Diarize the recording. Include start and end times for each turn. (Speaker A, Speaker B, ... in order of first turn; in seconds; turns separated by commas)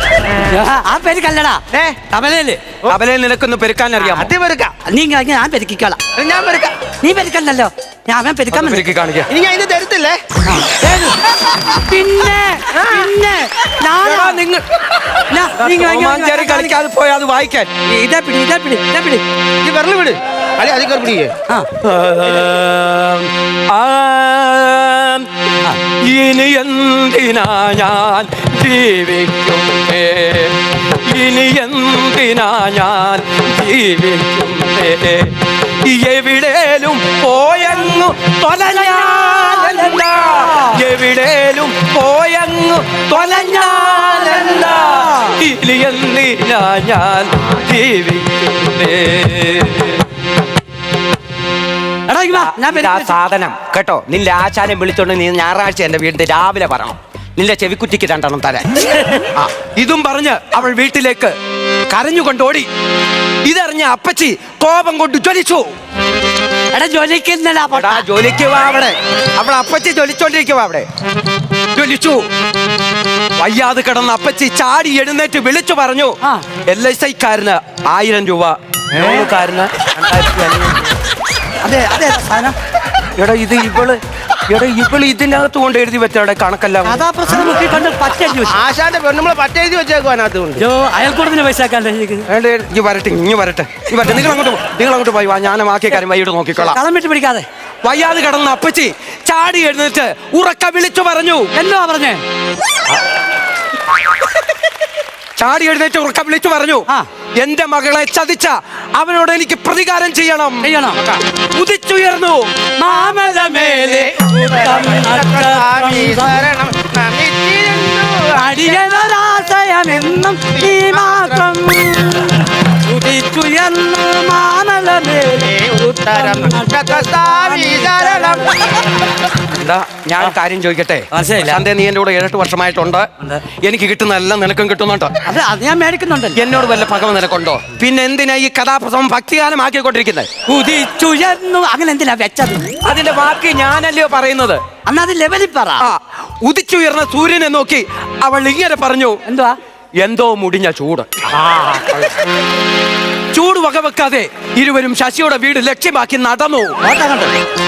Speaker A: 0.4-2.6, Speaker B: 1.7-2.0, Speaker C: 2.9-4.3, Speaker B: 4.0-4.7, Speaker A: 4.8-6.0, Speaker B: 6.2-6.8, Speaker A: 7.0-8.8, Speaker C: 8.5-9.3, Speaker B: 9.3-10.2, Speaker A: 10.4-14.4, Speaker B: 12.7-13.1, Speaker C: 14.0-14.7, Speaker A: 15.3-16.7, Speaker C: 15.6-17.7, Speaker A: 17.9-19.2, Speaker B: 19.6-21.3, Speaker C: 21.8-25.3, Speaker C: 26.0-50.1, Speaker A: 38.6-40.8, Speaker A: 43.1-45.4, Speaker A: 52.1-53.2, Speaker C: 52.3-61.3, Speaker A: 58.9-59.3, Speaker C: 61.9-62.7, Speaker C: 63.5-65.6, Speaker A: 66.7-68.0, Speaker C: 67.7-70.9, Speaker C: 71.7-72.2, Speaker C: 73.4-80.9, Speaker B: 79.0-79.3, Speaker A: 81.6-82.5, Speaker C: 83.2-87.0, Speaker A: 86.8-88.6, Speaker B: 88.5-90.6, Speaker A: 90.6-92.3, Speaker C: 92.3-96.8, Speaker A: 96.6-97.5, Speaker C: 97.8-101.5, Speaker A: 101.5-102.2, Speaker C: 105.4-106.9, Speaker C: 107.4-110.7, Speaker A: 110.6-111.0, Speaker C: 111.5-112.5, Speaker A: 112.8-116.4, Speaker B: 113.3-118.9, Speaker A: 118.3-128.9, Speaker B: 120.5-121.5, Speaker B: 125.4-128.6, Speaker C: 129.5-135.1, Speaker A: 131.1-131.6, Speaker A: 135.2-136.4, Speaker C: 136.4-140.3, Speaker A: 140.5-142.6, Speaker C: 142.8-144.6, Speaker A: 144.9-145.9, Speaker C: 145.8-149.2, Speaker A: 149.3-149.6, Speaker C: 150.0-151.1, Speaker B: 151.4-152.0, Speaker C: 153.3-156.8, Speaker A: 156.8-157.3